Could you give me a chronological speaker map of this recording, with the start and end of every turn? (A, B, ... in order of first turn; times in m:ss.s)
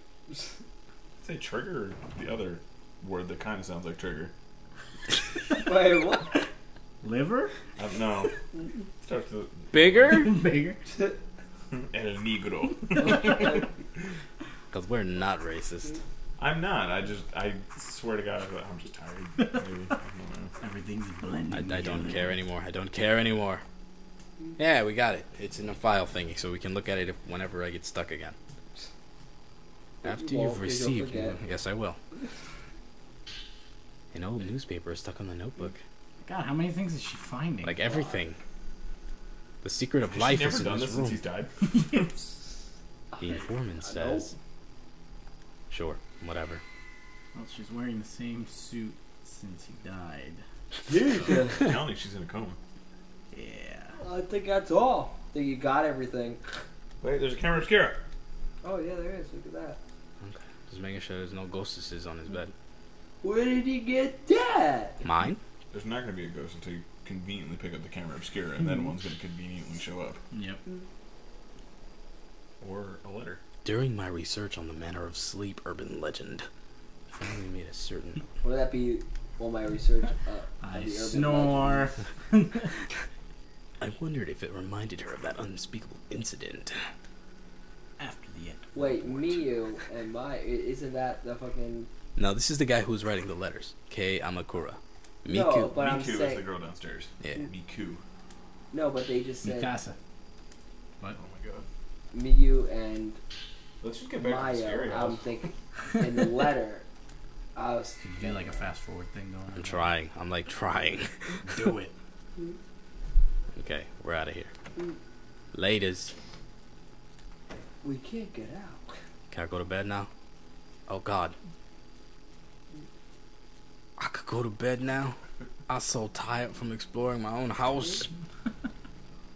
0:01.2-0:04.3 A
0:05.6-0:06.4 B
0:07.0-0:07.5 C
0:07.8-0:08.4 A
0:09.0-0:10.3 A
0:09.7-0:10.3 D
0:10.1-0:10.8 C
0:11.7-0:13.6 A
0:13.3-0:13.6 B
0:14.7-0:16.0 D
0:16.4-0:20.5 A
0:19.4-0:19.9 C
0:20.6-0:22.3 C
0:21.5-0:23.6 D
0:24.6-0:28.4 D
0:30.0-0:31.4 B
0:30.0-0:32.0 D
0:34.1-0:35.8 D
0:36.2-0:38.1 C
0:37.6-0:38.4 D
0:39.6-0:41.2 D
0:40.1-0:42.2 A
0:43.2-0:44.3 D
0:43.8-0:44.3 B
0:45.7-0:46.6 D
0:47.3-0:50.4 C
0:50.9-0:51.7 B
0:51.6-0:52.6 A
0:53.3-0:54.0 C
0:54.0-0:56.6 B
0:57.0-0:58.0 A
0:58.6-0:59.8 B
1:00.2-1:02.5 D
1:03.2-1:05.0 B
1:05.0-1:05.4 D
1:05.7-1:10.2 A
1:10.3-1:10.6 C
1:12.6-1:13.4 A
1:13.6-1:16.5 D
1:17.1-1:18.2 D
1:18.4-1:21.9 B
1:20.6-1:22.7 C
1:23.8-1:26.9 D
1:28.0-1:29.6 C
1:28.7-1:31.9 B
1:32.2-1:35.8 D
1:35.3-1:36.5 B
1:35.7-1:38.0 A
1:37.2-1:37.5 D
1:38.7-1:39.7 B
1:39.4-1:40.0 C
1:41.2-1:41.7 A
1:42.1-1:43.2 B
1:43.8-1:45.3 A
1:44.2-1:46.8 B
1:47.6-1:48.7 B
1:48.0-1:49.9 C
1:49.6-1:51.6 D
1:51.4-1:51.9 C
1:53.6-1:54.5 D
1:55.5-1:56.1 D
1:57.8-1:58.9 B
1:59.3-2:00.1 D
2:00.9-2:01.4 D
2:04.0-2:08.1 D